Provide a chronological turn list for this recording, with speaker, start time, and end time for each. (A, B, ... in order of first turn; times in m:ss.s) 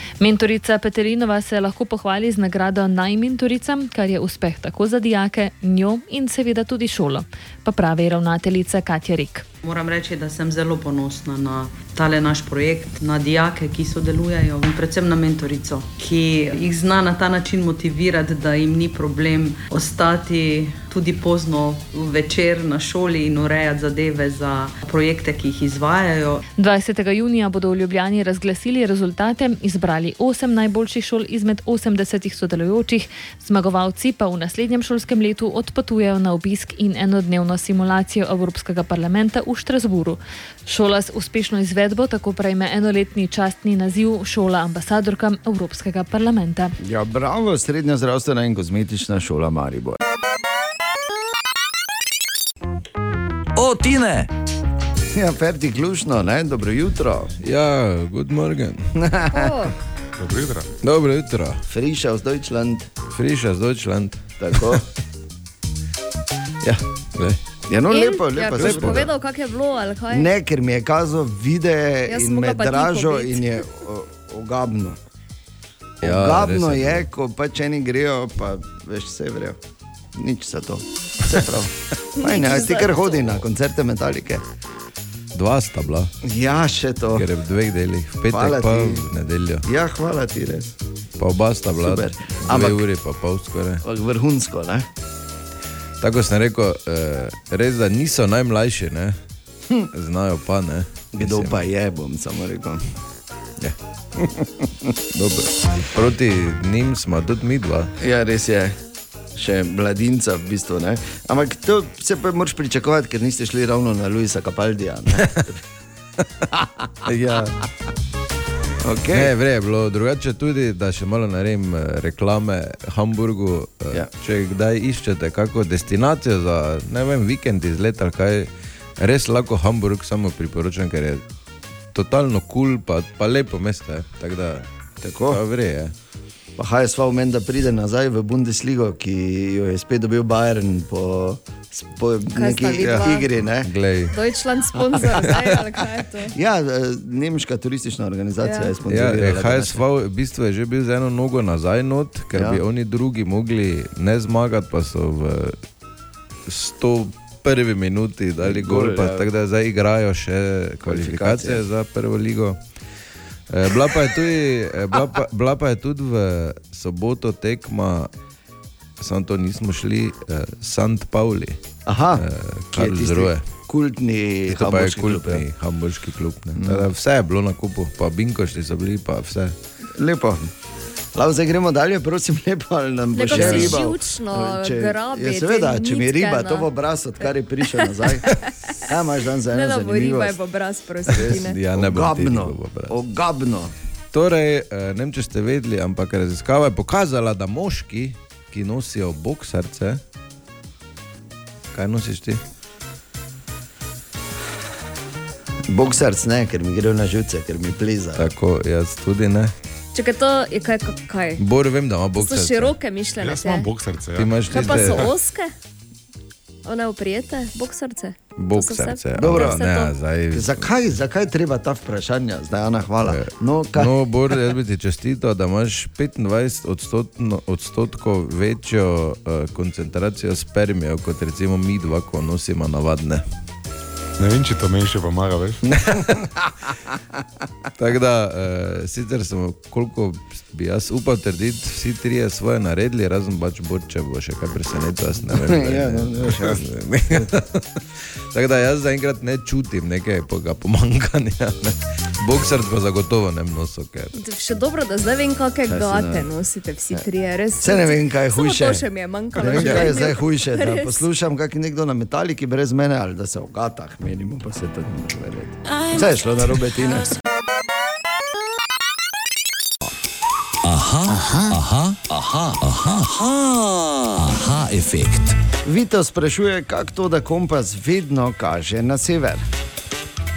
0:00.2-0:09.4 A
0:09.6-0:26.4 B
0:26.6-0:46.8 A
0:46.8-0:50.0 C
0:53.6-0:54.3 D
0:55.1-0:57.3 C
0:57.4-0:58.9 E
0:59.0-0:59.7 C
0:59.3-0:59.7 F
1:00.2-1:00.7 G
1:00.8-1:01.6 E
1:01.7-1:02.9 C
1:03.1-1:04.8 E
1:04.4-1:04.8 C
1:07.7-1:09.1 C
1:07.9-1:10.3 F
1:08.6-1:09.1 E
1:10.1-1:15.0 C
1:12.1-1:13.4 F
1:16.0-1:17.0 E
1:16.0-1:19.6 C
1:20.2-1:24.4 C
1:22.2-1:23.3 F
1:25.4-1:26.1 E
1:26.2-1:27.3 C
1:27.2-1:29.6 E
1:28.3-1:29.1 C
1:29.6-1:30.7 C
1:31.2-1:33.8 E
1:31.7-1:32.8 C
1:33.8-1:34.9 C
1:36.0-1:39.2 E
1:39.9-1:41.7 E
1:41.2-1:42.8 C
1:44.2-1:45.4 C
1:45.3-1:47.9 E
1:48.0-1:48.8 C
1:49.4-1:55.6 C
1:56.4-1:57.1 C
1:57.1-1:57.5 E
1:58.8-1:59.3 C
1:59.1-2:11.2 E
2:11.9-2:14.7 E
2:15.0-2:15.4 C
2:15.3-2:15.9 E
2:16.6-2:23.7 C
2:22.3-2:23.3 F
2:23.6-2:24.2 E
2:24.1-2:26.3 F
2:24.9-2:25.6 C
2:26.3-2:29.8 C
2:28.4-2:28.7 F
2:28.9-2:35.6 E
2:32.3-2:32.6 C
2:36.5-2:42.6 E
2:38.4-2:39.3 C
2:40.8-2:41.6 C
2:43.5-2:48.1 E
2:49.0-2:51.6 E
2:51.9-2:55.4 C
2:52.2-2:53.4 E
2:54.5-2:59.6 E
2:56.6-2:56.9 C
3:00.0-3:00.5 C
3:01.2-3:08.3 C
3:03.1-3:06.7 F
3:03.3-3:03.8 E
3:08.8-3:10.4 C
3:09.5-3:11.6 F
3:11.1-3:13.0 E
3:11.2-3:13.7 C
3:14.1-3:20.0 E
3:21.7-3:22.4 E
3:25.7-3:28.3 C
3:28.2-3:29.5 E
3:30.0-3:31.4 F
3:31.4-3:32.8 E
3:32.2-3:33.7 F
3:33.2-3:35.1 G
3:34.2-3:35.1 E
3:34.5-3:35.5 F
3:36.6-3:40.0 F
3:38.4-3:40.7 E
3:39.2-3:39.6 C
3:40.3-3:43.9 C
3:43.0-3:53.2 E
3:54.2-3:55.6 G
3:55.8-3:56.5 C
3:57.8-4:07.6 E
4:05.3-4:06.6 C
4:08.3-4:14.2 E
4:14.2-4:21.1 F
4:15.7-4:16.2 E
4:17.6-4:18.8 C
4:19.4-4:27.2 C
4:19.5-4:20.0 E
4:30.6-4:35.4 D
4:35.6-4:39.5 C